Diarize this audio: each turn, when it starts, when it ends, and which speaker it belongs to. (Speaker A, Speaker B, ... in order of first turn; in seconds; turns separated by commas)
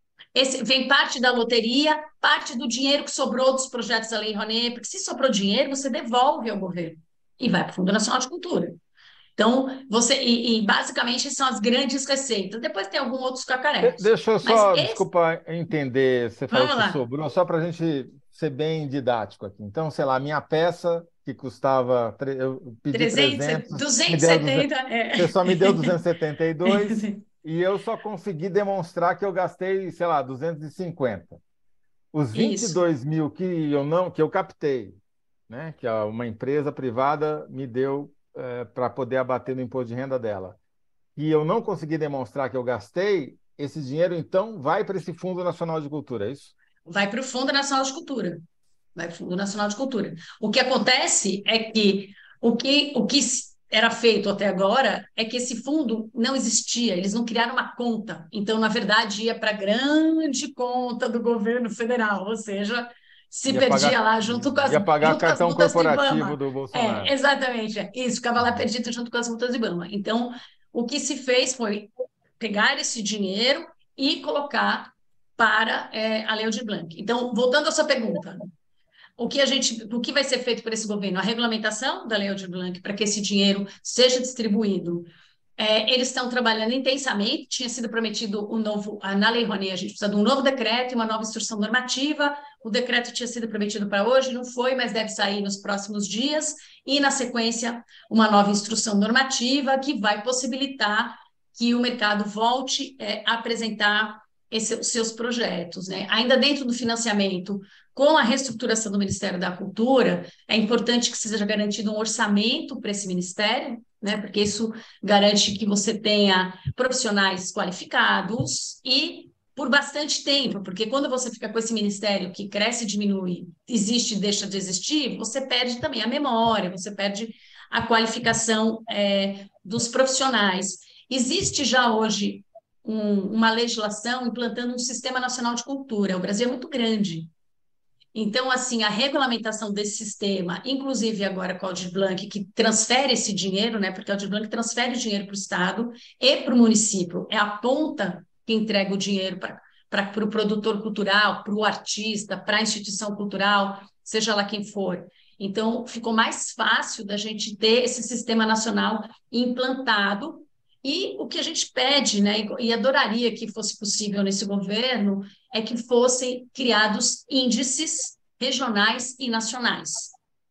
Speaker A: 0.3-8.8, Speaker A: 9.4-15.0, Speaker B: 13.8-31.4, Speaker A: 16.5-17.0, Speaker A: 22.9-26.0, Speaker A: 26.7-27.2, Speaker B: 32.1-35.0, Speaker A: 32.3-32.8, Speaker B: 35.5-40.6, Speaker B: 41.2-46.5, Speaker A: 46.9-48.4, Speaker A: 49.0-78.5, Speaker B: 63.5-67.2, Speaker A: 79.2-137.3, Speaker A: 138.1-170.2